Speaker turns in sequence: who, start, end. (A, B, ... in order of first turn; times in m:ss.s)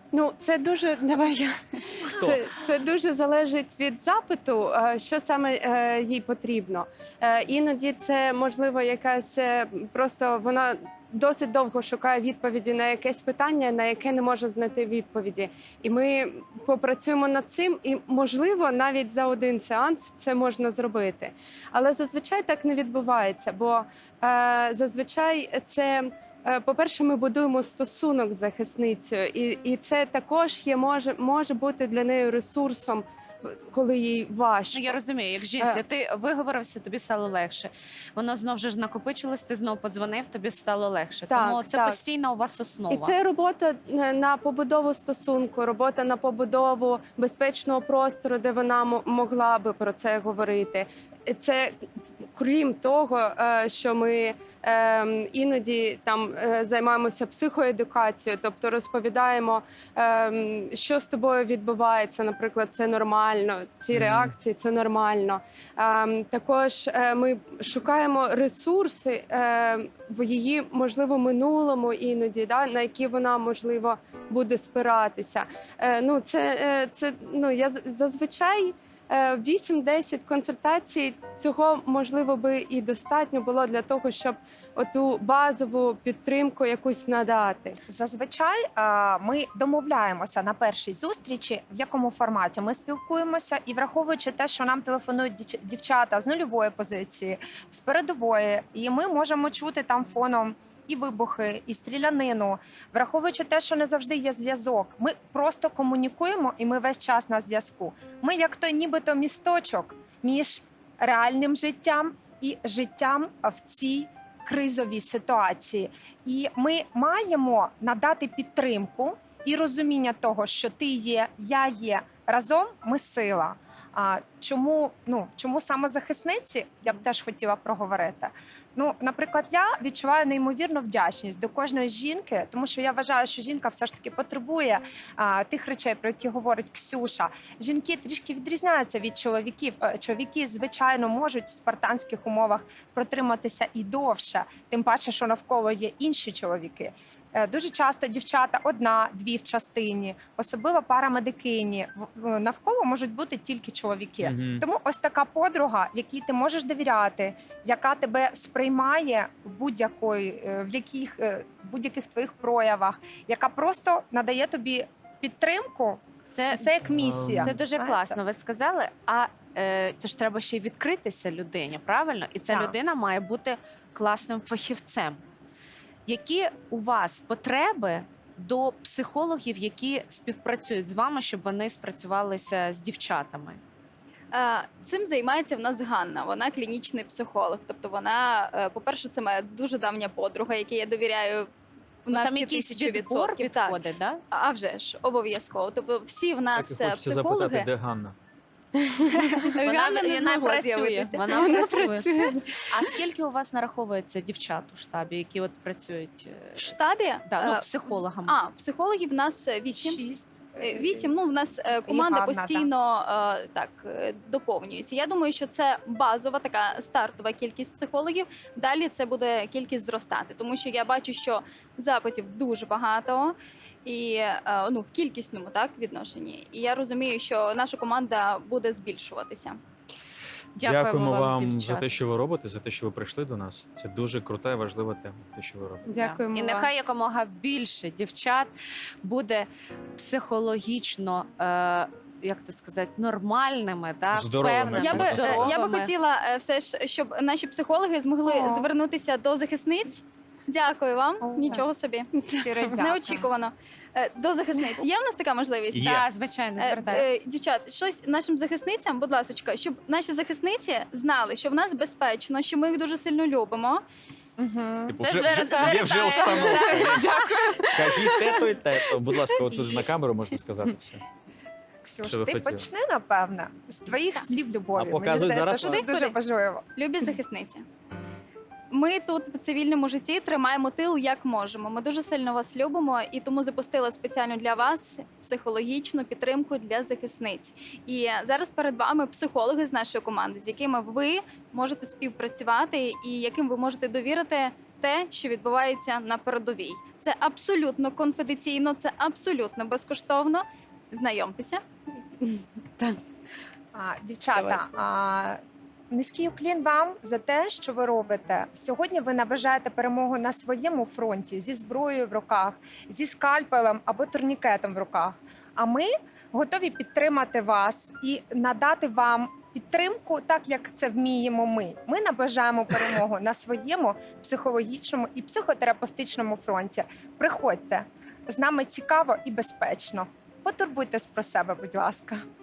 0:00.1-0:35.0 A
0:02.0-0:02.4 B
0:34.7-0:43.1 C
0:41.3-0:42.0 A
0:42.9-0:51.8 A
0:52.3-1:27.8 A
1:03.9-1:04.3 B
1:27.9-2:48.2 D
2:34.2-2:34.6 B
2:46.3-2:46.7 C
2:46.9-2:47.6 B
2:47.4-2:55.2 C
2:52.5-2:52.7 D
2:56.0-3:03.6 C
3:04.3-3:11.5 E
3:12.0-3:13.8 E
3:12.1-3:14.2 C
3:14.3-3:17.7 E
3:16.5-3:18.2 B
3:19.0-3:21.8 E
3:19.6-3:22.1 C
3:21.3-3:22.6 A
3:22.7-3:28.4 C
3:26.6-3:30.0 E
3:29.8-3:31.1 D
3:30.6-3:49.6 E
3:31.9-3:32.7 D
3:50.6-3:51.9 C
3:50.6-3:55.9 B
3:55.8-3:56.7 A
3:56.0-3:58.5 C
3:59.0-4:05.9 C
4:04.1-4:05.6 B
4:04.7-4:12.1 E
4:08.2-4:08.7 D
4:11.2-4:11.6 D
4:12.4-4:13.3 D
4:12.6-4:15.9 E
4:15.7-4:16.1 B
4:15.8-4:17.0 C
4:16.6-4:23.8 E
4:24.4-4:25.0 D
4:24.9-4:27.1 B
4:25.0-4:27.8 C
4:25.7-4:28.2 D
4:27.7-4:31.0 B
4:31.8-4:36.6 D
4:32.0-4:32.6 B
4:34.7-4:35.8 B
4:35.5-4:36.2 E
4:36.7-4:37.6 E
4:38.7-5:01.6 E
5:03.7-5:05.4 D
5:05.9-5:32.2 D